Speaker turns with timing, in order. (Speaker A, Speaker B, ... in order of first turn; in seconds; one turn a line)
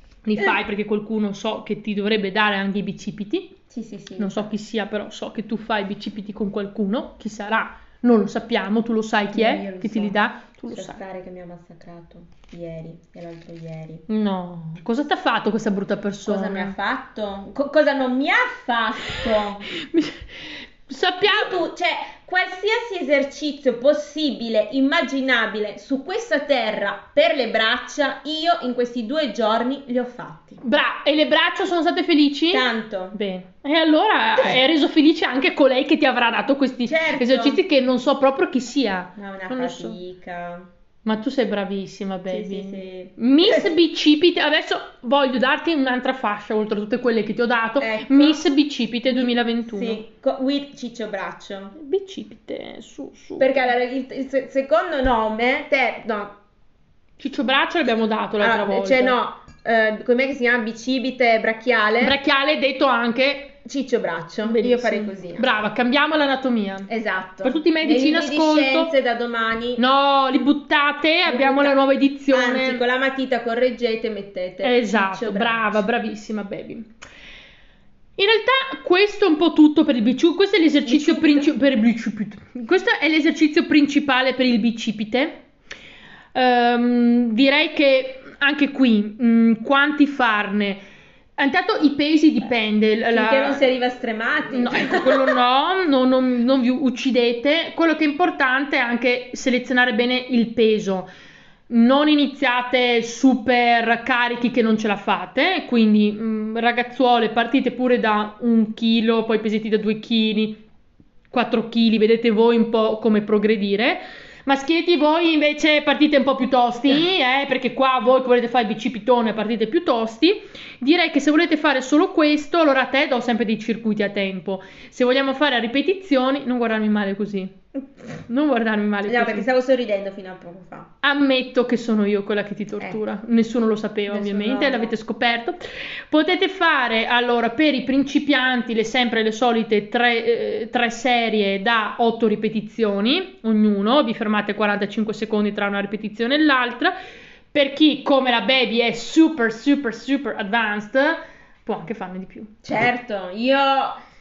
Speaker A: 0.3-3.5
Speaker B: 3.7-4.5
Speaker A: 4.2-11.0
Speaker B: 9.3-14.1
Speaker A: 14.1-16.8
Speaker B: 16.2-19.6
Speaker A: 19.1-20.3
Speaker A: 20.9-21.6
Speaker B: 21.2-30.6
Speaker A: 30.6-40.0
Speaker B: 32.5-33.2
Speaker B: 36.9-37.6
Speaker B: 39.2-40.7
Speaker A: 41.0-50.0
Speaker B: 42.3-43.7
Speaker B: 47.8-48.5
Speaker B: 49.1-51.7
Speaker A: 51.8-53.7
Speaker B: 53.4-56.4
Speaker A: 57.2-59.2
Speaker B: 58.4-62.2
Speaker A: 62.0-63.5
Speaker B: 63.6-65.6
Speaker A: 64.5-66.9
Speaker B: 66.9-69.8
Speaker A: 67.4-68.9
Speaker A: 69.8-72.8
Speaker B: 71.3-71.8
Speaker B: 72.3-75.9
Speaker A: 74.6-76.9
Speaker A: 78.2-85.4
Speaker B: 80.9-81.5
Speaker A: 86.3-90.8
Speaker A: 91.4-93.6
Speaker B: 93.1-95.4
Speaker A: 94.5-101.1
Speaker A: 101.7-110.6
Speaker A: 111.3-127.6
Speaker A: 128.3-129.5
Speaker B: 129.1-130.9
Speaker A: 131.0-146.9
Speaker B: 134.1-135.0
Speaker A: 147.5-152.5
Speaker B: 152.6-154.0